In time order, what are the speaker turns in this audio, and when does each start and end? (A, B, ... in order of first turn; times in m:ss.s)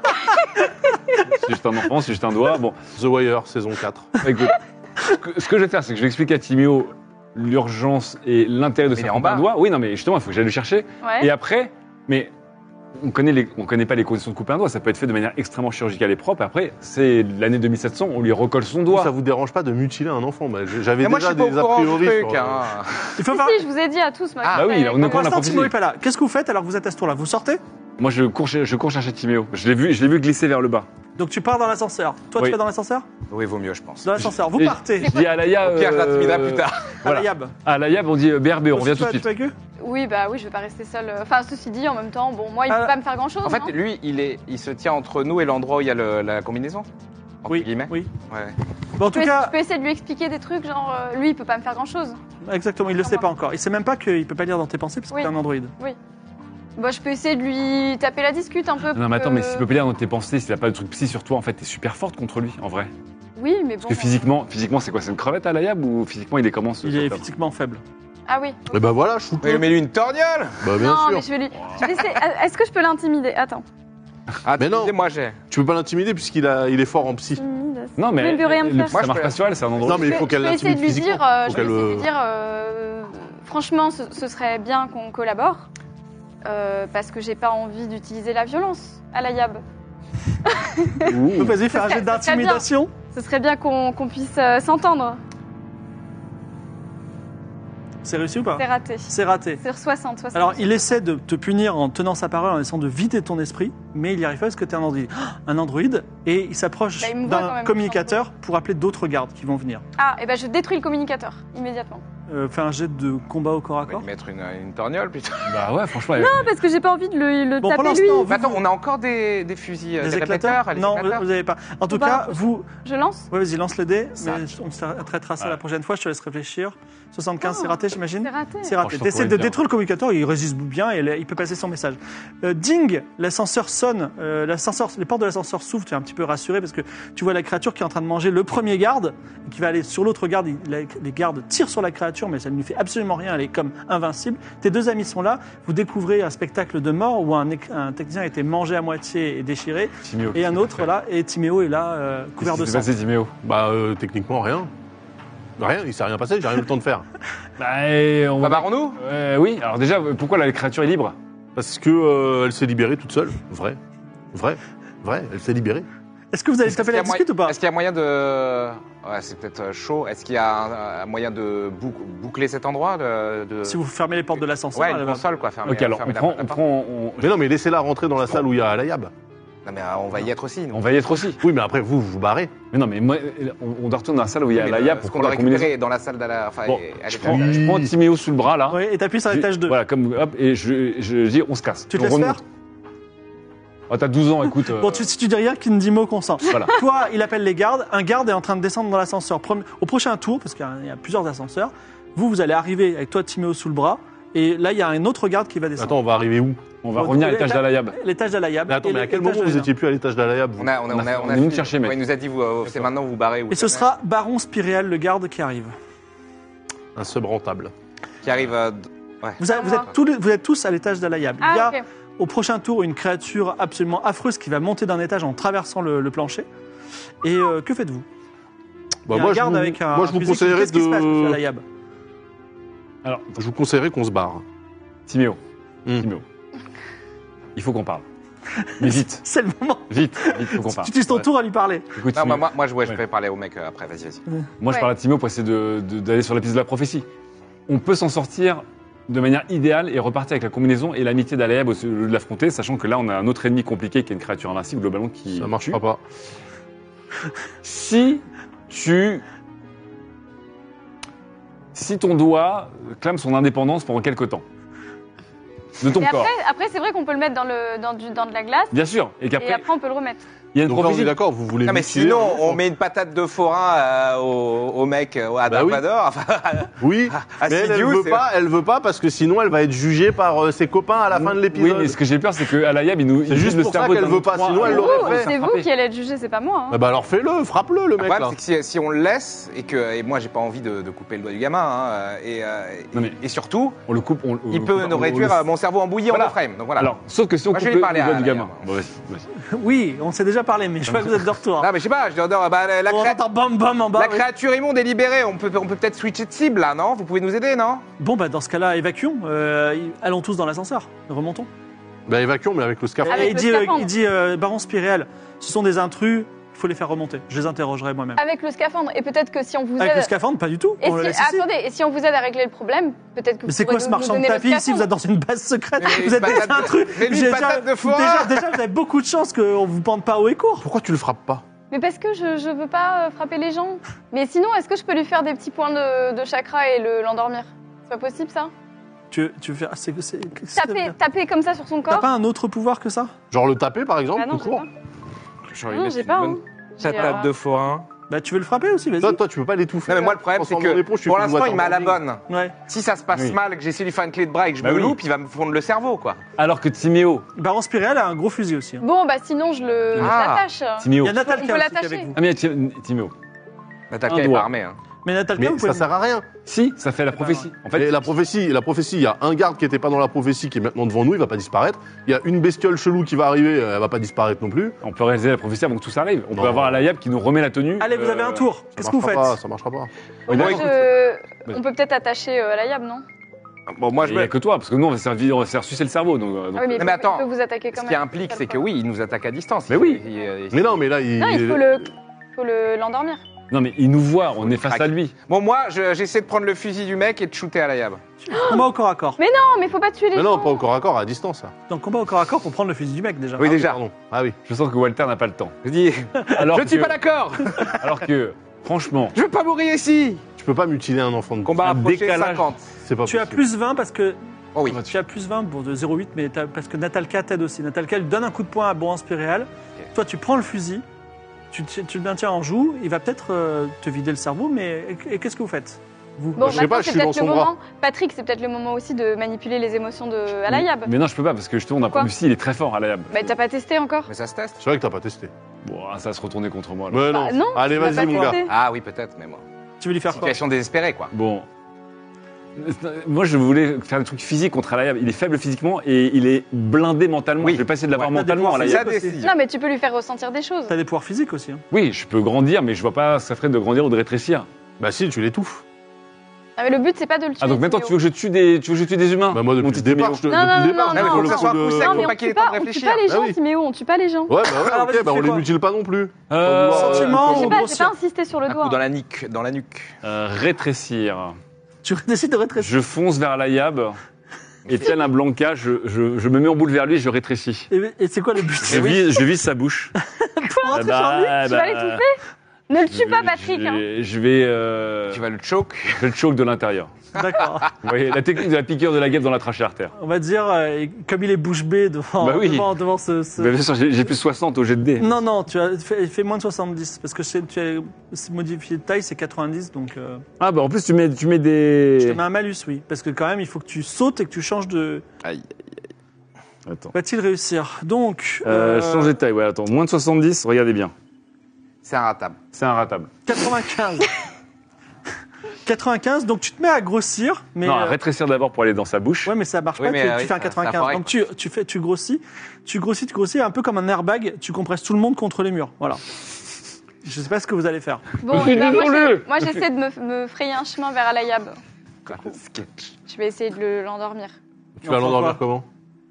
0:01.3-0:02.8 A
0:03.0-0:04.1 B
0:04.2-0:12.3 A
0:08.9-0:09.5 C
0:11.0-0:11.3 D
0:13.0-0:19.1 A
0:18.9-0:22.6 B
0:21.0-0:23.1 C
0:23.2-0:23.6 E
0:23.3-0:25.3 D
0:24.4-0:24.8 C
0:24.5-0:25.7 A
0:25.0-0:27.6 E
0:28.0-0:30.9 A
0:31.2-0:33.1 E
0:33.3-0:34.1 C
0:34.0-0:35.1 E
0:34.2-0:39.3 A
0:35.3-0:37.0 C
0:37.0-0:37.6 E
0:38.7-0:39.5 E
0:39.8-0:43.7 D
0:42.7-0:42.9 E
0:43.4-0:46.9 C
0:47.4-0:48.6 C
0:47.5-0:48.1 E
0:49.0-0:49.5 E
0:49.1-0:52.2 D
0:52.4-0:55.7 E
0:53.0-0:53.3 D
0:55.1-0:56.0 D
0:56.8-0:59.6 D
0:58.9-1:02.9 A
1:03.4-1:04.3 D
1:03.8-1:07.2 A
1:06.8-1:07.8 E
1:08.3-1:08.8 D
1:08.7-1:09.7 B
1:09.4-1:10.6 C
1:10.6-1:11.2 B
1:10.8-1:13.6 D
1:14.4-1:15.4 C
1:14.6-1:14.9 B
1:15.5-1:17.4 B
1:17.4-1:19.0 D
1:18.0-1:20.3 A
1:18.9-1:19.9 C
1:19.8-1:22.1 B
1:19.9-1:25.7 D
1:26.4-1:29.6 D
1:30.4-1:31.2 D
1:31.0-1:31.6 A
1:31.3-1:32.9 E
1:31.7-1:35.2 D
1:38.0-1:39.6 E
1:38.6-1:40.9 D
1:40.3-1:49.8 E
1:47.0-1:48.2 D
1:50.0-1:52.0 D
1:52.3-1:54.1 E
1:53.9-1:55.6 C
1:55.4-1:56.5 A
1:56.2-1:58.3 D
1:57.6-1:58.6 E
1:58.3-2:01.2 C
2:00.0-2:02.7 E
2:01.9-2:03.3 D
2:03.3-2:32.9 E
2:04.2-2:04.4 C
2:07.4-2:08.7 D
2:08.8-2:09.6 A
2:30.0-2:30.9 A
2:32.4-2:33.3 A
2:33.4-2:34.7 B
2:35.6-2:37.0 B
2:37.6-2:41.2 A
2:38.4-2:39.0 C
2:41.6-2:43.8 B
2:44.3-2:45.9 B
2:46.3-2:47.6 E
2:46.7-2:53.8 C
2:53.6-2:55.2 E
2:54.7-2:56.6 C
2:55.6-2:57.4 A
2:57.2-2:59.1 B
2:59.6-3:00.8 C
3:00.7-3:01.4 A
3:01.4-3:02.6 B
3:02.7-3:05.7 A
3:04.5-3:07.6 C
3:06.6-3:12.4 A
3:07.2-3:07.9 B
3:08.7-3:09.8 E
3:11.9-3:12.4 E
3:13.9-3:15.1 A
3:14.7-3:26.0 E
3:16.5-3:16.8 A
3:25.8-3:26.7 B
3:26.8-3:28.0 A
3:26.9-3:29.7 E
3:28.7-3:30.8 B
3:30.6-3:33.9 C
3:30.9-3:32.0 A
3:32.6-3:32.9 A
3:33.5-3:35.7 E
3:37.0-3:37.7 B
3:38.2-3:39.4 C
3:39.4-3:46.5 E
3:39.5-3:39.9 D
3:41.4-3:41.8 D
3:47.2-3:48.1 E
3:49.1-3:51.4 B
3:49.1-3:51.6 E
3:53.0-3:53.4 A
3:53.4-3:54.4 B
3:55.1-3:55.4 A
3:57.6-3:58.0 A
3:58.6-4:01.9 E
3:58.8-3:59.2 A
3:59.9-4:01.2 A
4:01.9-4:03.0 A
4:02.1-4:04.2 C
4:04.6-4:07.1 A
4:07.7-4:15.8 A
4:15.3-4:16.0 B
4:17.6-4:19.2 A
4:21.7-4:24.4 A
4:25.8-4:26.3 A
4:25.9-4:28.7 D
4:28.7-4:29.6 A
4:29.4-4:30.2 D
4:30.5-4:31.1 A
4:30.6-4:32.6 B
4:31.6-4:38.2 C
4:35.5-4:35.8 B
4:36.8-4:42.0 B
4:41.1-4:45.7 A
4:43.2-4:45.3 B
4:44.6-4:46.8 D
4:46.7-4:48.4 B
4:48.0-4:53.8 C
4:53.9-4:55.4 A
4:54.5-4:56.9 C
4:56.1-4:59.3 A
4:57.5-4:58.7 C
4:59.5-5:01.7 E
5:00.9-5:01.2 A
5:01.6-5:03.2 C
5:02.9-5:04.2 E
5:03.9-5:07.9 C
5:08.0-5:11.5 E
5:12.1-5:13.4 B
5:13.0-5:18.2 E
5:13.1-5:13.9 D
5:18.2-5:20.1 D
5:19.8-5:21.5 E
5:20.8-5:24.9 D
5:23.5-5:30.6 E
5:25.8-5:28.4 C
5:30.6-5:31.4 B
5:31.7-5:38.5 D
5:39.1-5:40.9 E
5:40.6-5:42.1 D
5:41.9-5:43.1 E
5:43.3-5:44.6 B
5:44.1-5:44.7 D
5:45.5-5:47.9 C
5:45.7-5:47.3 D
5:48.1-5:49.2 E
5:49.0-5:52.0 B
5:49.9-5:56.2 C
5:52.3-5:52.6 E
5:54.6-5:55.0 A
5:56.4-5:57.2 A
5:57.4-5:58.8 E
5:58.8-6:02.1 D
6:00.0-6:00.5 C
6:00.8-6:01.2 A
6:01.0-6:02.2 E
6:02.1-6:03.1 A
6:03.9-6:04.8 C
6:04.1-6:04.5 A
6:05.0-6:05.9 E
6:05.4-6:06.3 B
6:06.4-6:08.1 A
6:07.1-6:07.5 E
6:07.7-6:14.8 B
6:14.8-6:18.5 A
6:16.3-6:16.9 B
6:17.8-6:19.4 E
6:18.8-6:19.9 B
6:20.3-6:23.0 D
6:20.3-6:20.7 A
6:20.3-6:20.9 C
6:23.7-6:24.3 C
6:24.0-6:26.9 A
6:26.6-6:28.6 D
6:26.8-6:30.8 C
6:29.7-6:30.0 A
6:30.5-6:31.9 B
6:31.2-6:33.2 D
6:33.5-6:35.1 A
6:34.4-6:38.0 C
6:38.2-6:39.2 E
6:38.3-6:40.6 D
6:40.1-6:41.5 B
6:41.7-6:43.6 E
6:43.4-6:43.8 C
6:43.4-6:44.4 B
6:44.4-6:45.6 A
6:45.6-6:48.0 C
6:46.2-6:47.0 A
6:47.8-6:49.2 A
6:49.1-6:50.2 C
6:50.4-6:51.6 B
6:51.4-6:52.6 C
6:51.6-6:52.5 A
6:52.8-6:53.4 B
6:53.1-6:54.2 E
6:54.6-6:54.8 C
6:54.8-7:00.8 E
7:01.5-7:06.6 E
7:06.4-7:10.9 D
7:06.4-7:07.5 B
7:10.5-7:13.3 A
7:13.1-7:14.1 D
7:14.1-7:14.6 C
7:14.6-7:15.3 B
7:15.6-7:17.1 A
7:16.9-7:18.4 B
7:17.1-7:18.5 D
7:17.7-7:18.4 E
7:18.5-7:19.4 C
7:19.8-7:20.4 E
7:20.1-7:21.1 C
7:21.1-7:21.5 A
7:22.6-7:28.9 A
7:27.4-7:29.4 C
7:28.1-7:29.2 E
7:29.2-7:30.7 D
7:30.7-7:31.6 E
7:31.7-7:34.5 A
7:34.8-7:35.6 B
7:36.6-7:38.0 D
7:37.4-7:40.3 A
7:39.3-7:42.1 B
7:40.3-7:44.4 D
7:40.9-7:43.1 C
7:43.1-7:43.4 B
7:44.3-7:47.6 B
7:44.5-7:45.4 E
7:46.3-7:47.3 A
7:46.7-7:47.9 E
7:47.2-7:48.8 D
7:48.5-7:50.0 C
7:50.0-7:51.4 A
7:51.8-7:52.7 E
7:52.6-7:54.0 A
7:54.6-7:54.9 C
7:54.6-7:57.7 A
7:57.7-7:59.0 E
7:58.6-7:59.9 A
7:58.7-7:59.1 C
8:00.1-8:01.4 E
8:00.7-8:02.0 A
8:01.4-8:03.8 D
8:02.9-8:05.2 A
8:05.1-8:06.1 C
8:06.0-8:06.9 A
8:07.1-8:07.7 E
8:07.8-8:09.9 A
8:10.0-8:13.5 E
8:12.2-8:12.8 A
8:13.4-8:15.2 A
8:15.0-8:20.2 E
8:20.4-8:22.2 A
8:22.0-8:25.0 E
8:25.2-8:25.5 C
8:26.7-8:26.9 A
8:26.9-8:29.2 E
8:28.4-8:30.9 A
8:31.8-8:32.4 C
8:32.5-8:33.1 A
8:33.2-8:34.1 E
8:35.6-8:38.0 E
8:37.6-8:39.3 A
8:39.2-8:46.0 E
8:39.8-8:41.1 C
8:47.0-8:48.2 E
8:48.2-8:51.6 D
8:48.3-8:49.6 A
8:52.1-8:52.9 C
8:53.1-8:54.3 D
8:54.8-8:55.6 B
8:54.8-8:55.4 E